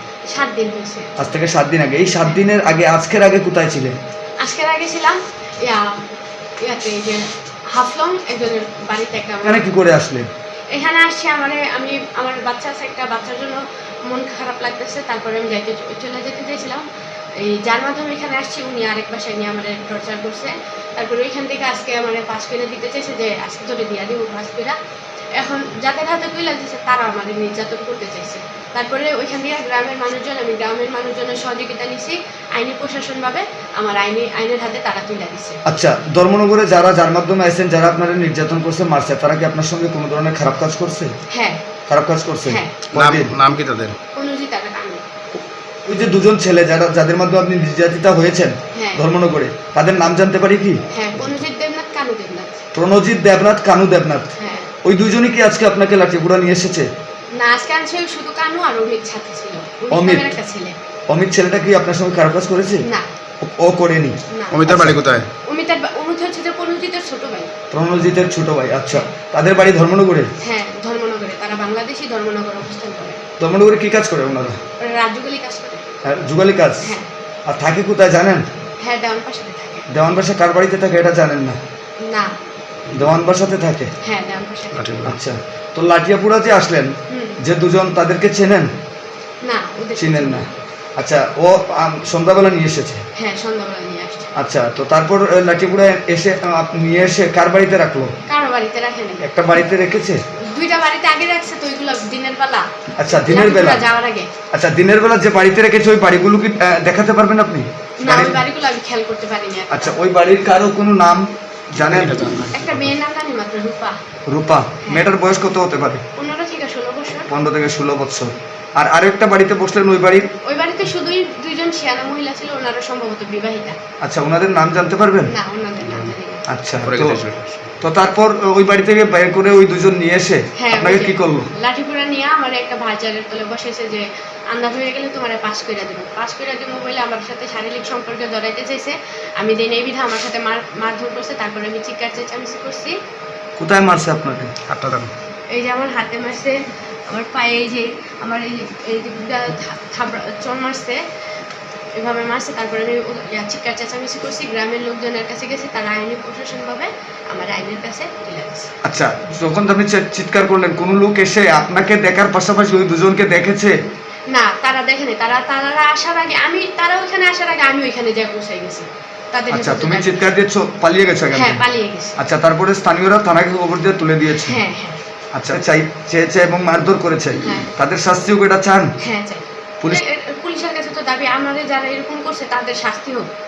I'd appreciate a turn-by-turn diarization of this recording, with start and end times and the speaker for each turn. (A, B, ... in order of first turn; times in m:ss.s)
0:00.3-0:01.1 A
0:01.2-0:03.9 B
0:04.4-0:05.9 A
0:06.6-0:09.6 A
0:09.4-0:10.2 B
0:10.7-0:16.8 A
0:17.4-0:24.8 A
0:25.4-0:35.6 A
0:35.6-0:41.1 B
0:41.3-0:41.6 A
0:41.9-0:43.3 B
0:42.4-0:42.8 A
0:42.9-0:44.0 C
0:44.2-0:45.0 A
0:45.9-0:50.8 B
0:48.7-0:49.0 A
0:50.9-0:52.6 A
0:52.7-0:54.3 B
0:54.4-0:54.7 A
0:54.8-0:56.9 B
0:57.4-1:00.7 A
0:59.9-1:00.3 B
1:01.1-1:02.8 B
1:02.8-1:03.1 A
1:03.4-1:05.0 B
1:04.3-1:04.8 A
1:04.5-1:05.3 C
1:05.5-1:07.5 A
1:07.7-1:10.3 B
1:10.4-1:13.2 A
1:13.4-1:14.6 B
1:14.8-1:15.8 A
1:16.0-1:16.9 B
1:16.8-1:17.1 A
1:17.5-1:18.4 B
1:18.8-1:19.9 A
1:19.9-1:21.6 B
1:22.1-1:22.3 A
1:22.9-1:23.1 C
1:22.9-1:23.9 B
1:24.0-1:24.9 A
1:24.7-1:25.2 C
1:25.0-1:28.7 B
1:27.1-1:27.4 A
1:29.4-1:30.4 A
1:30.0-1:30.5 B
1:31.0-1:33.0 B
1:33.2-1:34.3 A
1:34.4-1:38.1 B
1:38.3-1:39.3 A
1:39.2-1:40.2 B
1:40.5-1:42.7 A
1:43.0-1:43.8 B
1:43.3-1:44.3 A
1:44.5-1:48.4 B
1:48.0-1:49.9 A
1:49.7-1:52.3 B
1:51.8-1:52.9 C
1:52.5-1:54.0 A
1:54.3-1:56.0 B
1:56.2-1:57.3 A
1:57.3-2:00.3 B
2:00.5-2:03.8 A
2:04.0-2:05.3 B
2:05.3-2:06.4 A
2:06.5-2:07.2 B
2:06.8-2:07.7 C
2:07.8-2:11.5 B
2:10.6-2:22.9 A
2:23.6-2:24.5 B
2:24.7-2:25.1 C
2:25.5-2:26.6 A
2:27.1-2:31.0 A
2:32.0-2:38.7 A
2:38.8-2:43.7 B
2:44.3-2:50.3 A
2:49.5-2:51.6 B
2:51.3-2:52.1 A
2:52.2-2:54.6 B
2:54.4-2:55.0 A
2:55.3-2:58.9 B
2:57.4-2:57.7 A
2:59.0-3:03.3 A